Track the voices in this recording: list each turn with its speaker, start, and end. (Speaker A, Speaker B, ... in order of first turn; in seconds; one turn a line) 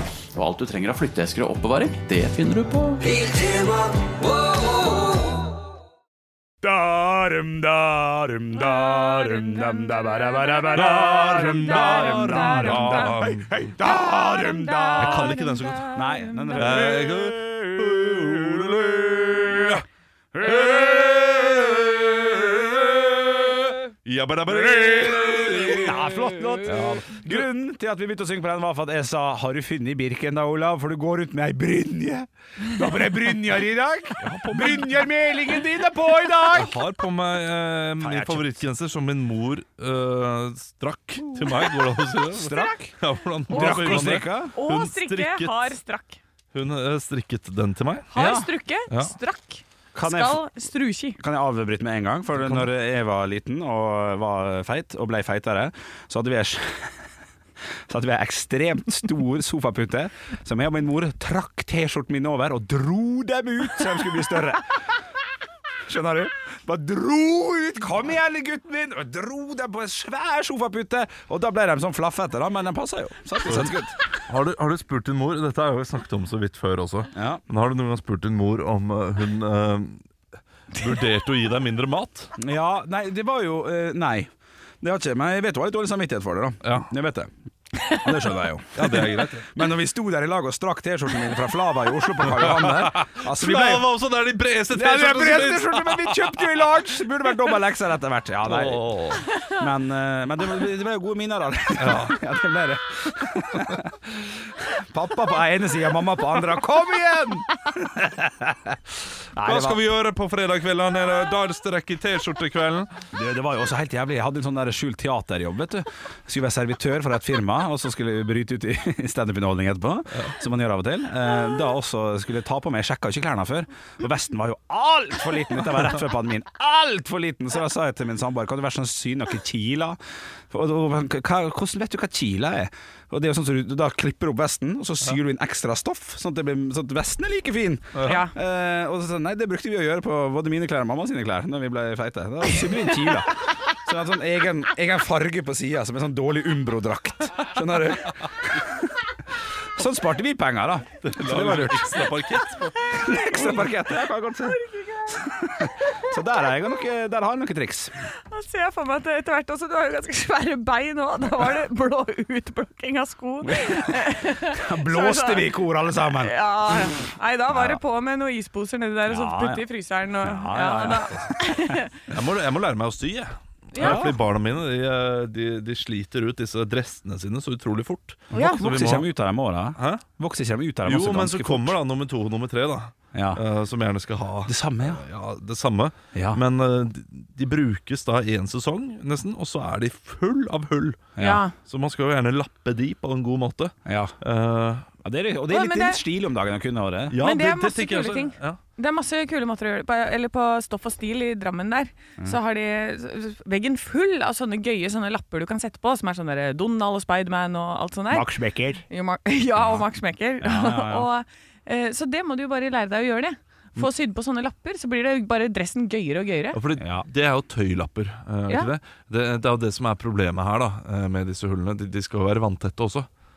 Speaker A: 0.3-3.7
Speaker B: 6.6-15.4
Speaker C: 8.6-13.2
Speaker D: 10.7-13.6
Speaker C: 13.8-16.9
Speaker D: 15.0-16.0
Speaker B: 15.9-23.6
Speaker D: 16.6-19.8
Speaker D: 20.4-22.5
Speaker D: 23.3-26.0
Speaker B: 24.5-36.8
Speaker D: 26.6-27.5
Speaker D: 34.2-35.1
Speaker D: 36.5-45.7
Speaker B: 38.0-38.6
Speaker B: 42.3-42.9
Speaker B: 43.5-44.5
Speaker C: 43.5-46.2
Speaker D: 46.5-48.1
Speaker C: 48.1-51.2
Speaker B: 48.1-48.5
Speaker B: 49.9-50.4
Speaker B: 51.2-57.1
Speaker D: 52.4-52.7
Speaker B: 57.9-64.8
Speaker B: 65.8-74.0
Speaker D: 73.4-73.7
Speaker D: 74.3-80.0
Speaker B: 77.1-77.4
Speaker D: 80.7-82.3
Speaker B: 82.4-87.3
Speaker D: 86.6-86.9
Speaker B: 87.9-93.9
Speaker D: 88.8-89.6
Speaker D: 92.3-96.3
Speaker B: 94.7-108.8
Speaker D: 98.4-99.3
Speaker D: 101.8-102.2
Speaker B: 109.3-109.8
Speaker D: 109.4-112.9
Speaker B: 113.1-130.0
Speaker B: 130.5-149.0
Speaker C: 138.0-138.3
Speaker B: 149.8-152.2
Speaker D: 151.0-153.6
Speaker C: 152.9-153.6
Speaker B: 152.9-157.9
Speaker C: 154.5-156.1
Speaker C: 158.3-171.9
Speaker B: 164.3-166.3
Speaker B: 167.5-167.8
Speaker B: 169.1-169.7
Speaker B: 170.2-171.8
Speaker D: 172.1-179.1
Speaker C: 173.7-174.1
Speaker B: 173.8-174.2
Speaker B: 178.3-181.8
Speaker C: 178.3-178.6
Speaker D: 179.8-180.0
Speaker D: 180.9-194.9
Speaker B: 183.1-183.4
Speaker B: 184.5-185.0
Speaker B: 186.1-186.4
Speaker B: 191.2-191.4
Speaker C: 191.2-191.6
Speaker B: 193.9-194.2
Speaker B: 195.0-197.2
Speaker C: 195.5-196.0
Speaker D: 197.1-198.6
Speaker C: 197.2-208.3
Speaker B: 208.1-208.8
Speaker C: 208.9-216.6
Speaker B: 210.4-211.1
Speaker D: 216.5-223.1
Speaker B: 216.8-217.1